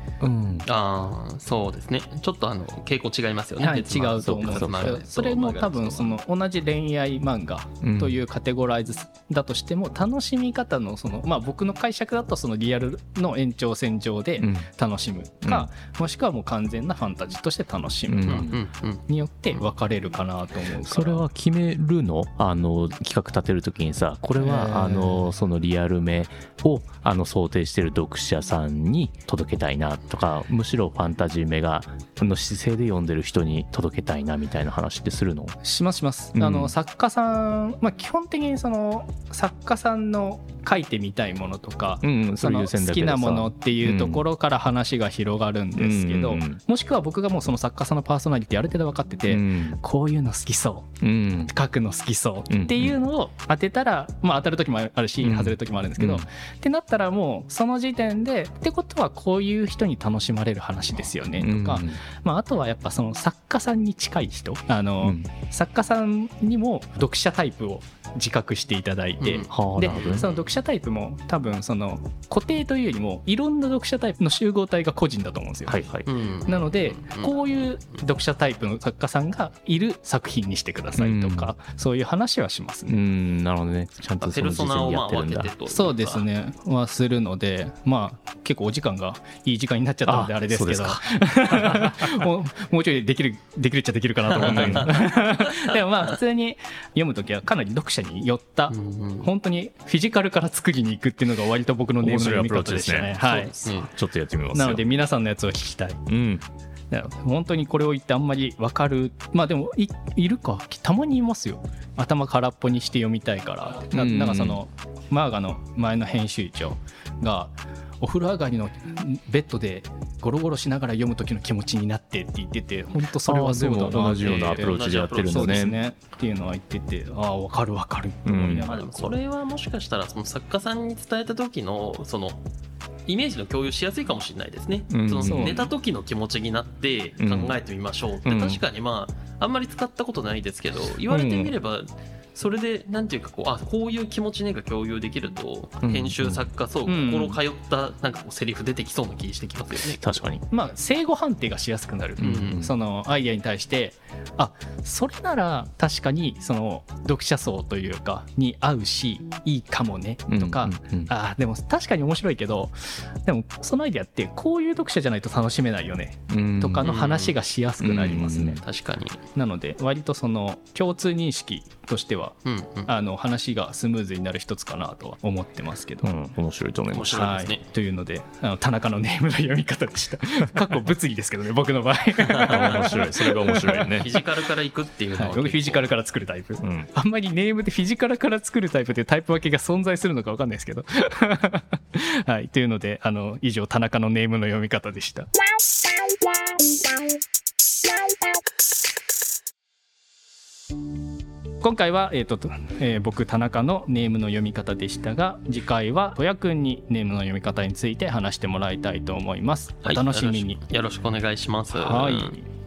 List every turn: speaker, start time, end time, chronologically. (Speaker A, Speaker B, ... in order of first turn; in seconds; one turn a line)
Speaker A: 0.2-0.7
Speaker B: 0.7-6.2
Speaker C: 3.6-21.2
Speaker A: 4.2-5.0
Speaker A: 7.8-8.2
Speaker A: 14.4-14.7
Speaker A: 15.4-15.7
Speaker A: 18.1-18.6
Speaker B: 18.2-19.0
Speaker A: 20.9-35.6
Speaker C: 24.4-25.3
Speaker C: 35.6-75.8
Speaker A: 36.3-36.7
Speaker A: 42.0-44.2
Speaker A: 45.8-46.6
Speaker A: 49.3-49.8
Speaker A: 51.0-51.5
Speaker A: 52.5-53.0
Speaker A: 55.2-56.2
Speaker A: 61.4-62.0
Speaker A: 65.0-65.3
Speaker B: 69.2-70.3
Speaker A: 69.5-70.3
Speaker A: 75.7-76.1
Speaker B: 76.0-77.3
Speaker C: 76.4-83.0
Speaker A: 81.0-81.5
Speaker A: 82.9-85.5
Speaker B: 84.2-86.2
Speaker C: 85.7-103.8
Speaker A: 90.0-92.2
Speaker A: 94.3-95.1
Speaker B: 94.4-95.8
Speaker B: 98.7-99.3
Speaker A: 102.0-104.8
Speaker B: 103.6-103.9
Speaker C: 104.5-106.0
Speaker A: 106.1-106.4
Speaker C: 106.9-124.7
Speaker A: 113.9-114.6
Speaker A: 123.2-125.8
Speaker B: 124.2-125.7
Speaker C: 125.3-129.2
Speaker A: 128.2-128.7
Speaker B: 128.6-132.4
Speaker B: 133.1-150.2
Speaker A: 134.9-135.7
Speaker C: 135.2-135.7
Speaker A: 137.2-137.6
Speaker A: 138.2-138.6
Speaker A: 141.1-141.5
Speaker A: 145.8-146.5
Speaker C: 146.9-147.4
Speaker A: 150.0-150.4
Speaker C: 150.5-162.7
Speaker A: 152.2-152.7
Speaker B: 152.2-152.6
Speaker A: 160.3-161.1
Speaker C: 163.2-168.6
Speaker A: 166.3-166.9
Speaker B: 166.8-167.3
Speaker A: 167.8-168.6
Speaker B: 168.6-169.2
Speaker C: 169.3-176.1
Speaker B: 172.4-172.9
Speaker A: 176.0-177.3
Speaker B: 176.9-177.6
Speaker C: 177.1-184.1
Speaker A: 182.3-184.2
Speaker B: 182.4-183.0
Speaker B: 183.6-185.9
Speaker C: 185.2-195.3
Speaker A: 186.6-186.9
Speaker C: 201.6-210.6
Speaker B: 209.8-212.3
Speaker C: 211.7-212.4